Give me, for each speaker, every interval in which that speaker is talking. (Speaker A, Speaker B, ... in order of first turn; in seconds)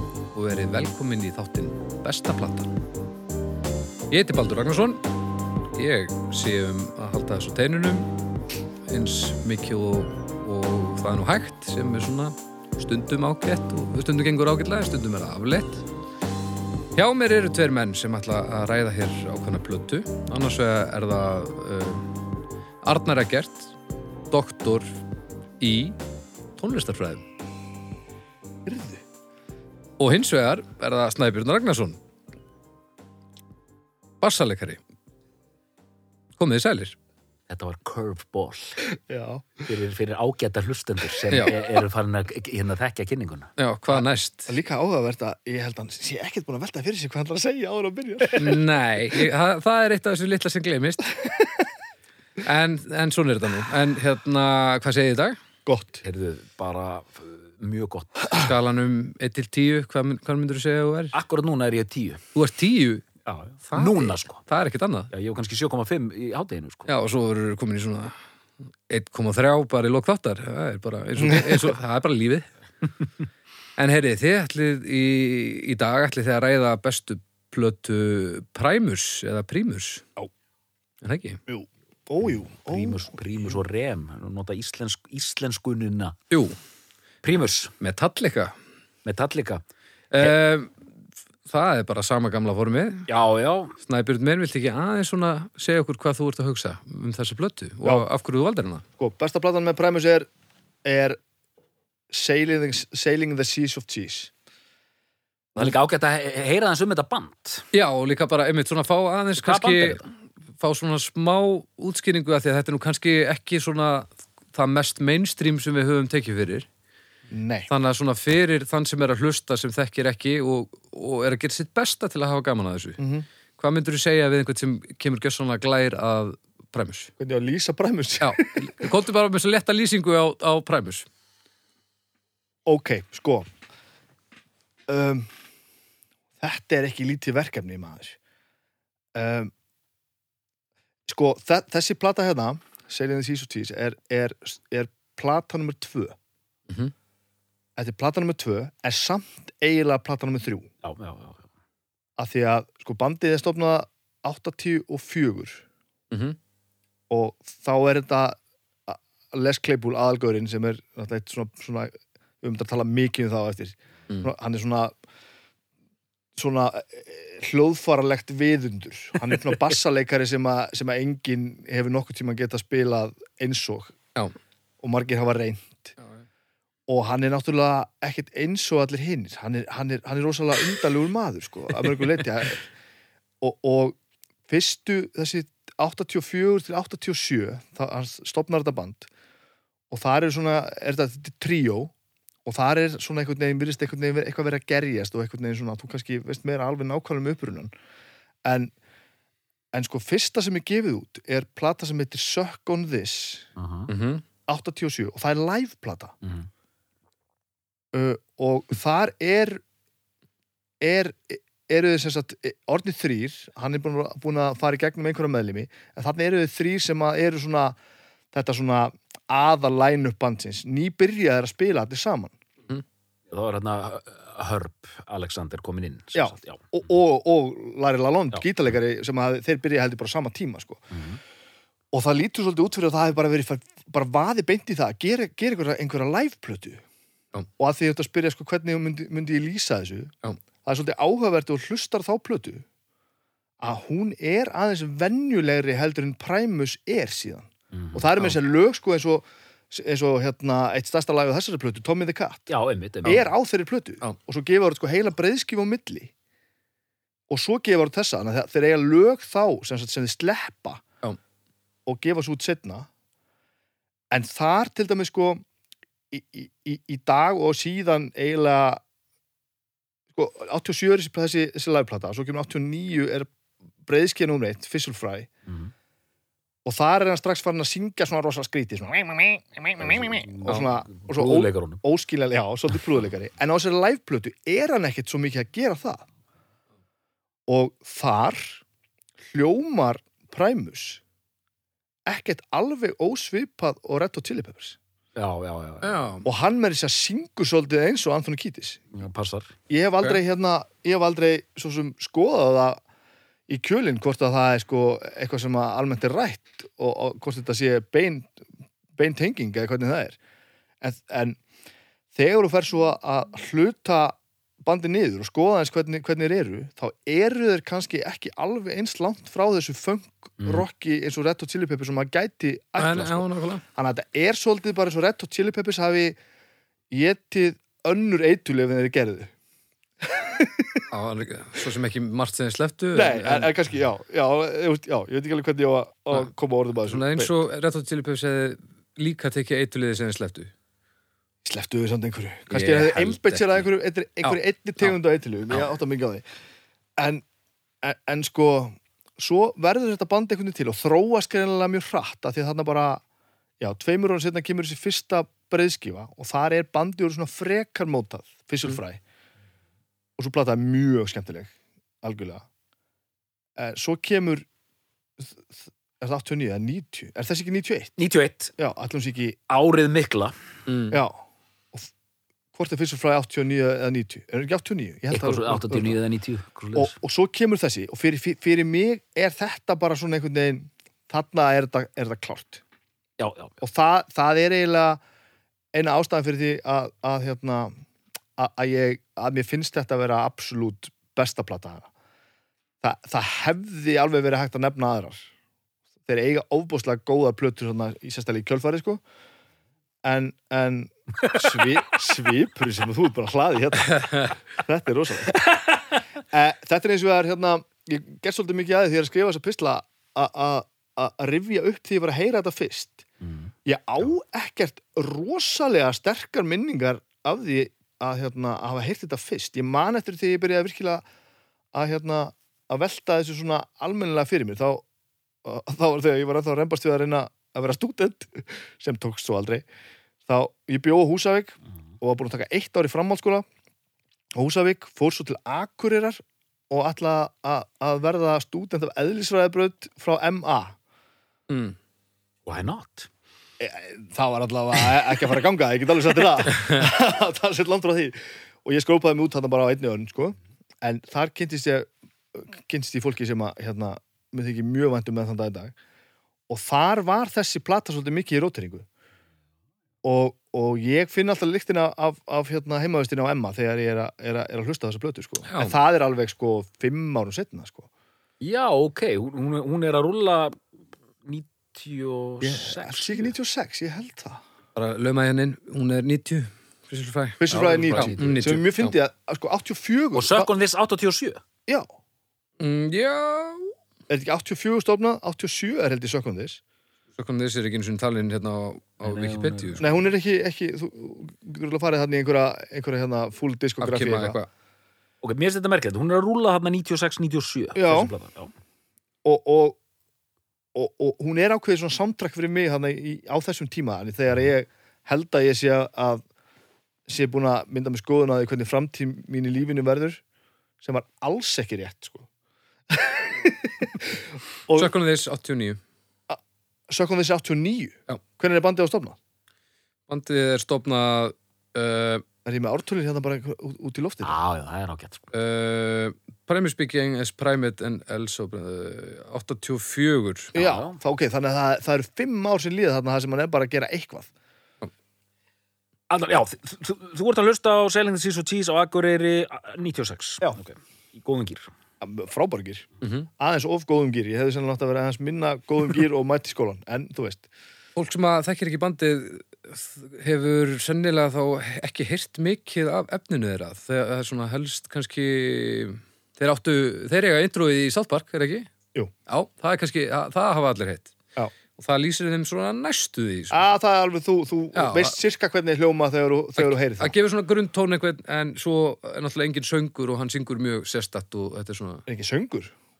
Speaker A: 0.3-2.8, 4.1-5.0, 5.7-8.1, 8.9-15.8, 16.9-22.2, 22.8-23.7, 24.3-24.9, 25.6-26.0, 26.6-27.2, 30.0-32.0, 34.2-34.8, 36.4-37.0, 41.3-41.6, 43.6-44.5, 48.3-51.1, 52.4-55.4, 58.3-61.1, 62.3-63.1, 63.7-65.1, 66.9-68.1, 68.9-72.5, 73.8-80.0, 81.0-81.4, 87.8-88.5, 90.1-90.7, 91.5-93.1, 93.8-98.8, 107.7-110.0, 110.6-116.7, 117.7-123.0, 123.6-127.1, 128.2-131.1, 156.1-156.4, 203.9-204.2, 295.8-296.2, 322.8-323.6, 330.9-333.5, 336.8-340.5, 342.5-343.6, 370.7-371.0, 441.5-441.8, 465.5-465.7, 474.7-478.9, 482.6-483.7, 487.2-489.9, 493.8-494.5, 514.7-515.8, 520.1-522.2, 525.3-530.5, 543.0-543.3, 548.0-558.7, 559.3-561.2, 561.8-563.6, 564.7-565.1, 566.6-572.0
Speaker B: 28.6-29.0, 39.1-39.6, 43.9-48.6, 51.2-51.6, 55.6-56.0, 71.2-71.6, 81.5-83.1, 99.0-100.3, 100.8-101.2, 102.1-104.3, 117.3-117.7, 123.0-123.2, 127.2-128.9, 132.7-133.5, 134.9-135.3, 136.4-138.2, 139.1-139.5, 141.1-146.2, 147.8-150.7, 152.2-155.6, 157.1-164.9, 166.3-173.9, 174.8-175.9, 176.9-182.7, 183.4-184.0, 184.5-189.1, 189.9-191.9, 192.4-197.7, 198.4-198.7, 199.7-203.5, 204.5-206.1, 207.9-209.6, 210.8-217.8, 218.3-222.3, 226.1-230.9, 231.9-236.8, 237.6-242.6, 243.6-252.5, 253.0-256.1, 257.3-260.8, 261.9-262.9, 264.1-265.4, 266.1-268.8, 270.1-273.3, 273.8-275.3, 276.6-286.0, 287.5-288.6, 289.3-291.0, 292.1-294.8, 296.2-298.8, 299.7-302.8, 303.5-308.4, 308.9-310.2, 310.8-311.4, 312.1-326.2, 326.9-329.3, 330.0-330.9, 332.9-337.4, 341.4-346.2, 347.0-347.2, 347.8-353.0, 353.6-359.0, 360.2-361.5, 362.0-362.4, 363.6-364.4, 365.2-368.0, 368.6-369.4, 370.9-371.2, 372.5-376.0, 376.7-382.6, 383.6-385.0, 385.7-387.7, 388.4-391.9, 392.8-395.3, 396.1-399.0, 400.0-405.4, 406.3-413.0, 413.6-421.0, 421.7-424.8, 425.4-429.6, 430.3-433.4, 434.3-440.8, 443.6-455.7, 456.5-458.9, 460.0-467.9, 472.4-474.4, 477.4-480.5, 484.1-486.6, 489.8-494.4, 497.7-498.1, 499.2-499.8, 500.7-506.2, 507.1-510.2, 510.8-512.3, 512.9-514.9, 516.3-519.2, 522.4-524.4, 530.5-534.3, 542.0-547.5, 563.5-567.1, 572.0-572.7
Speaker C: 37.5-38.8, 39.6-43.5, 56.0-58.3, 61.1-62.2, 63.2-64.4, 65.1-66.9, 82.6-86.2, 87.2-87.7, 89.0-89.6, 93.1-93.7, 105.5-107.7, 109.3-110.1, 150.8-151.4, 203.6-203.9, 206.2-206.5, 223.3-226.6, 230.9-231.2, 247.7-248.3, 252.5-253.3, 275.4-275.7, 279.8-281.8, 295.1-295.9, 298.9-299.5, 368.0-368.5, 369.5-370.3, 375.1-376.9, 383.2-383.5, 413.2-413.5, 442.4-443.1, 468.4-470.6, 471.2-473.3, 477.6-478.3, 480.1-481.4, 489.0-489.9, 495.2-498.5, 524.2-525.3, 530.5-531.0, 536.1-541.7